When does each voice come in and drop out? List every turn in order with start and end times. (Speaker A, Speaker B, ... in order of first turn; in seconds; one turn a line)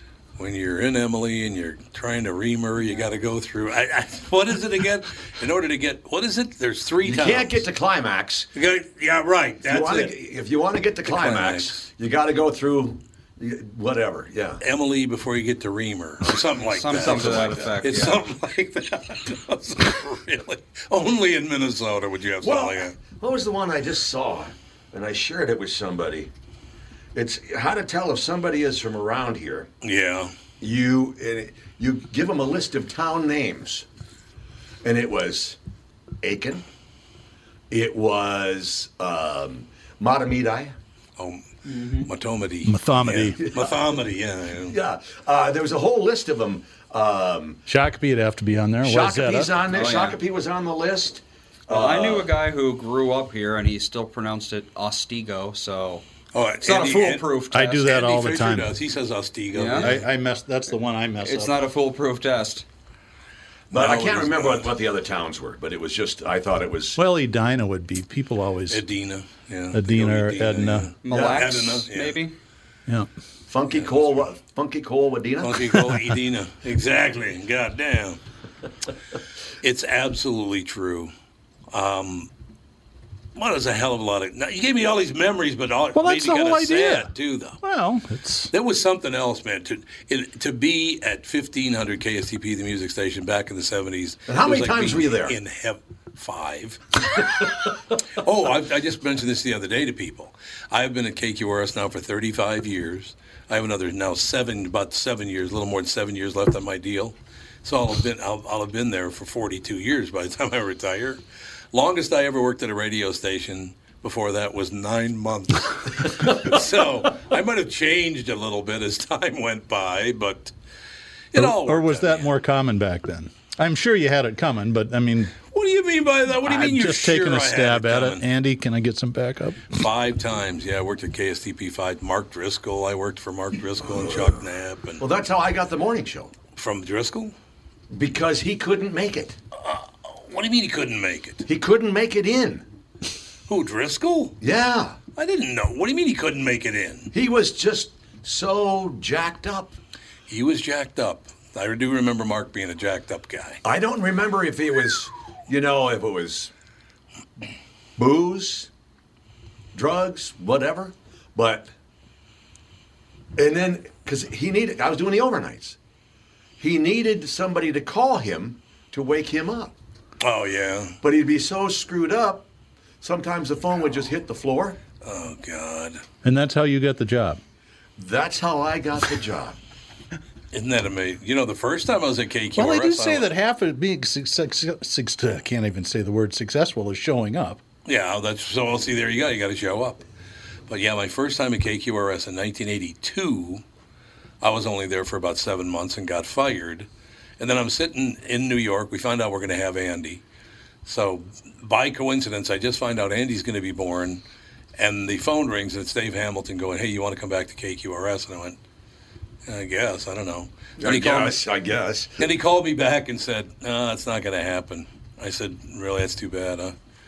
Speaker A: 0.4-7.7
Speaker B: 7.0-8.5
Speaker A: 8.6-10.2
Speaker B: 9.6-14.6
Speaker A: 11.1-11.9
Speaker A: 14.6-23.0
Speaker C: 16.6-18.2
Speaker B: 17.0-17.8
Speaker B: 22.4-26.3
Speaker B: 27.1-29.7
Speaker A: 29.8-30.3
Speaker B: 30.6-33.9
Speaker B: 34.8-35.6
Speaker B: 36.2-36.6
Speaker B: 37.7-40.7
Speaker A: 41.2-44.8
Speaker C: 41.7-42.1
Speaker D: 42.7-43.5
Speaker B: 43.5-43.7
Speaker B: 44.7-47.6
Speaker D: 47.7-49.7
Speaker B: 48.8-52.3
Speaker C: 49.7-50.2
Speaker C: 51.7-56.0
Speaker A: 56.3-60.0
Speaker C: 56.6-57.9
Speaker D: 56.8-58.7
Speaker C: 59.5-60.0
Speaker D: 59.8-61.6
Speaker C: 61.2-62.6
Speaker B: 63.7-67.0
Speaker A: 63.7-64.8
Speaker D: 67.0-68.8
Speaker A: 68.7-72.2
Speaker D: 69.7-70.9
Speaker C: 71.0-72.3
Speaker B: 71.1-71.4
Speaker B: 73.5-75.6
Speaker A: 73.7-74.3
Speaker A: 75.4-78.2
Speaker A: 79.6-81.1
Speaker A: 81.7-82.3
Speaker A: 83.3-87.6
Speaker D: 85.9-87.1
Speaker D: 87.6-88.5
Speaker A: 88.5-97.0
Speaker B: 94.3-95.4
Speaker A: 98.2-111.2
Speaker A: 111.7-120.5
Speaker A: 121.3-122.3
Speaker D: 121.3-125.4
Speaker A: 125.5-128.2
Speaker D: 126.4-129.7
Speaker A: 129.7-135.0
Speaker B: 135.0-136.3
Speaker A: 136.6-137.3
Speaker B: 137.9-139.4
Speaker A: 139.6-141.4
Speaker B: 141.5-142.7
Speaker A: 143.5-144.4
Speaker B: 144.4-145.0
Speaker A: 145.2-147.1
Speaker B: 147.1-149.8
Speaker A: 150.3-153.6
Speaker B: 153.6-156.5
Speaker B: 158.0-158.7
Speaker B: 159.7-161.7
Speaker B: 163.4-165.8
Speaker B: 166.6-169.8
Speaker A: 170.2-171.0
Speaker B: 171.0-172.5
Speaker B: 173.0-174.8
Speaker A: 175.0-176.0
Speaker D: 176.2-177.4
Speaker B: 178.0-179.6
Speaker A: 180.5-183.3
Speaker D: 182.6-187.6
Speaker A: 187.9-190.0
Speaker A: 190.7-193.6
Speaker A: 194.4-196.9
Speaker A: 197.4-200.2
Speaker A: 200.8-204.2
Speaker A: 204.8-208.6
Speaker A: 209.5-211.5
Speaker B: 210.8-212.2
Speaker A: 212.2-216.8